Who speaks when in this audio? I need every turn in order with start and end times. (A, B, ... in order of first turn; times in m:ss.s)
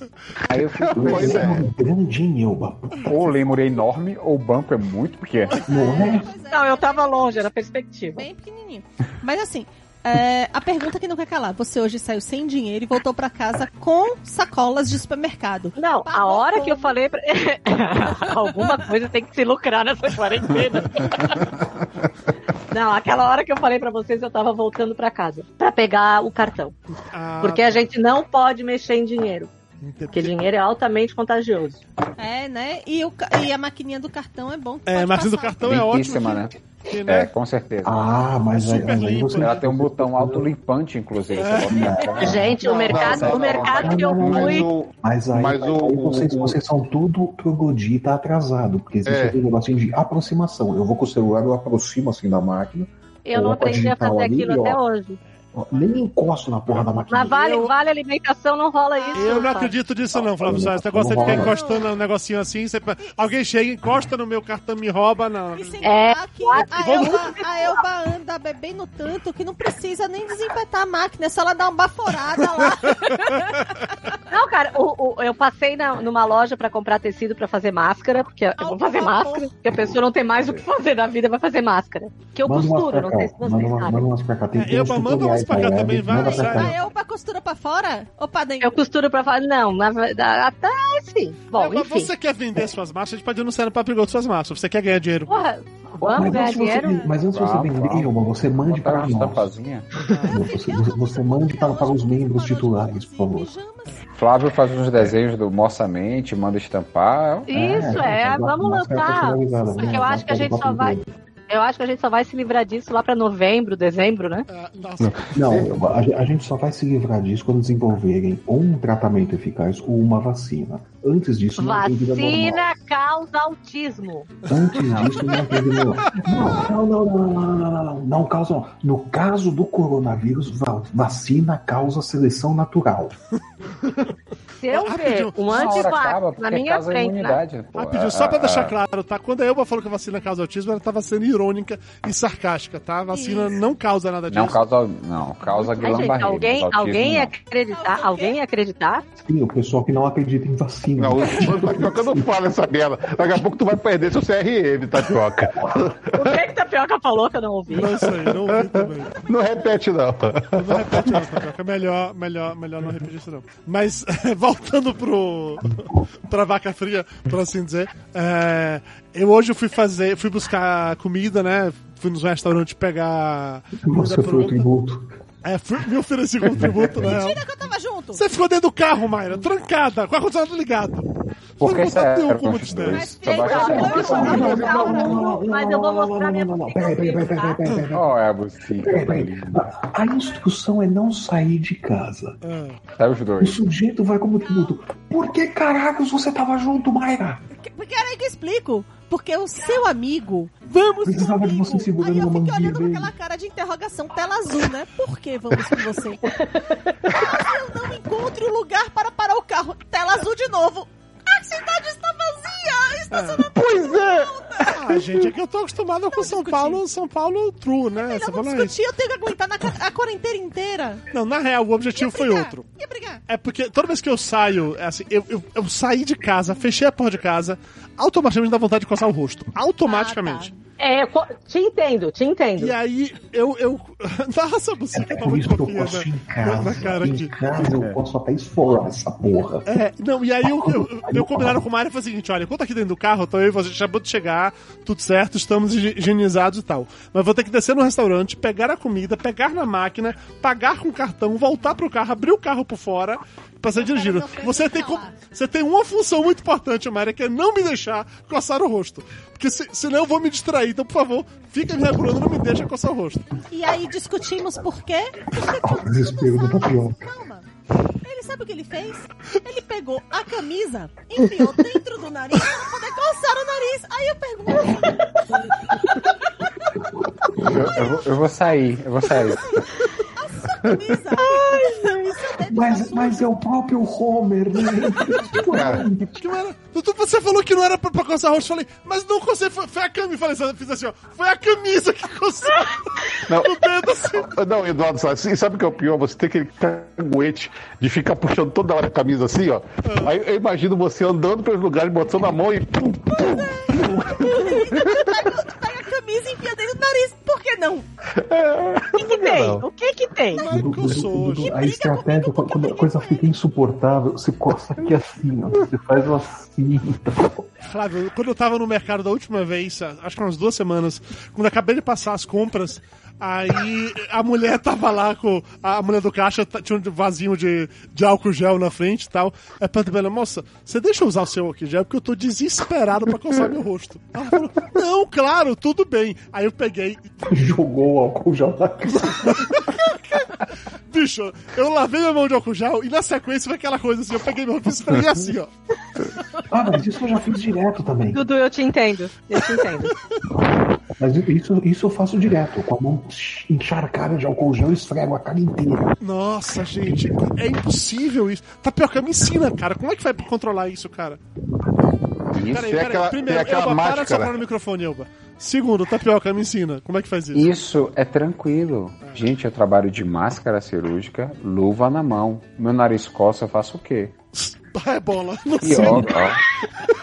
0:00.4-0:01.6 A
0:00.8-0:01.6 B
0:00.9-0:03.3 C
0:03.0-0:05.7 A
0:05.5-0:07.5 D
0:05.7-0:06.3 C
0:06.5-0:08.2 E
0:08.2-0:17.0 D
0:15.8-0:21.5 E
0:22.7-0:26.8 E
0:27.1-0:27.8 F
0:27.4-0:29.5 E
0:29.8-0:30.4 F
0:30.1-0:31.8 E
0:32.2-0:35.8 D
0:34.9-0:37.3 F
0:35.6-0:36.5 A
0:37.0-0:38.1 A
0:37.8-0:40.5 C
0:38.6-0:39.6 F
0:39.4-0:42.5 A
0:41.3-0:43.2 F
0:41.6-0:54.8 C
0:42.2-0:44.7 E
0:42.8-0:46.6 B
0:49.0-0:49.4 B
0:53.2-0:55.2 E
0:55.5-0:57.4 C
0:57.1-0:59.7 E
0:57.3-0:57.7 F
0:59.0-0:59.5 D
0:59.1-1:05.9 F
1:00.4-1:01.5 C
1:01.2-1:01.9 D
1:05.5-1:13.8 D
1:05.8-1:07.8 E
1:06.8-1:07.1 F
1:14.3-1:24.1 E
1:18.6-1:19.5 D
1:22.4-1:26.8 C
1:24.5-1:26.8 F
1:26.1-1:28.8 D
1:28.6-1:32.1 E
1:31.5-1:35.4 F
1:35.3-1:37.1 E
1:36.0-1:39.5 C
1:37.3-1:38.1 A
1:38.6-1:39.9 A
1:40.1-1:40.4 F
1:40.2-1:43.5 C
1:40.3-1:44.0 D
1:44.1-1:47.5 A
1:47.5-1:51.0 E
1:47.5-1:51.1 C
1:49.7-1:50.1 D
1:51.5-1:54.4 E
1:54.5-1:55.5 F
1:55.3-2:02.6 C
1:55.4-1:55.8 B
2:01.6-2:04.3 E
2:04.5-2:13.1 C
2:04.8-2:05.1 F
2:14.6-2:17.4 E
2:14.7-2:15.9 F
2:15.4-2:18.7 A
2:17.8-2:24.6 F
2:23.1-2:23.6 D
2:24.3-2:27.3 A
2:25.8-2:29.0 E
2:27.7-2:28.4 D
2:29.2-2:32.3 C
2:31.0-2:36.3 B
2:36.2-2:37.9 E
2:37.7-2:39.2 F
2:38.3-2:41.2 B
2:40.5-2:54.7 F
2:53.8-2:55.1 C
2:55.4-2:57.4 F
2:57.0-2:58.2 D
2:58.1-3:01.1 F
3:01.6-3:03.1 F
3:01.6-3:04.6 A
3:02.9-3:05.2 D
3:03.2-3:07.7 E
3:03.7-3:08.1 C
3:07.9-3:09.8 A
3:08.8-3:12.4 C
3:12.4-3:12.8 F
3:13.0-3:13.6 A
3:13.4-3:17.4 C
3:17.6-3:26.4 D
3:21.0-3:23.1 C
3:26.2-3:27.0 E
3:27.0-3:34.8 D
3:33.1-3:33.4 F
3:33.6-3:35.0 B
3:34.7-3:38.7 F
3:36.1-3:36.8 D
3:38.0-3:41.0 D
3:41.1-3:42.6 F
3:41.9-3:43.2 D
3:43.3-3:50.5 F
3:49.8-3:50.6 D
3:50.8-3:52.7 E
3:52.6-3:57.4 F
3:54.9-3:59.7 C
3:57.7-3:58.0 A
3:59.7-4:23.3 F
4:00.4-4:01.6 C
4:13.8-4:15.1 D
4:23.5-4:27.5 D
4:25.6-4:27.1 C
4:28.0-4:35.2 D
4:35.8-4:36.1 D
4:37.4-4:39.6 A
4:39.1-4:43.2 D
4:42.4-4:46.3 C
4:45.5-4:45.8 B
4:46.2-4:54.3 F
4:54.2-5:04.1 B
4:59.8-5:00.2 F
5:03.1-5:07.8 D
5:08.2-5:09.6 B
5:08.9-5:10.4 E
5:10.3-5:11.5 F
5:10.5-5:17.5 C
5:11.1-5:13.3 D
5:17.6-5:37.3 F
5:37.2-5:39.6 C
5:39.4-5:45.5 F
5:46.5-5:48.2 C
5:48.1-5:49.9 E
5:50.9-5:55.9 C
5:56.0-6:01.2 F
6:02.3-6:07.5 F
6:02.4-6:04.4 B
6:07.3-6:14.1 A
6:14.3-6:16.2 F
6:15.6-6:16.4 A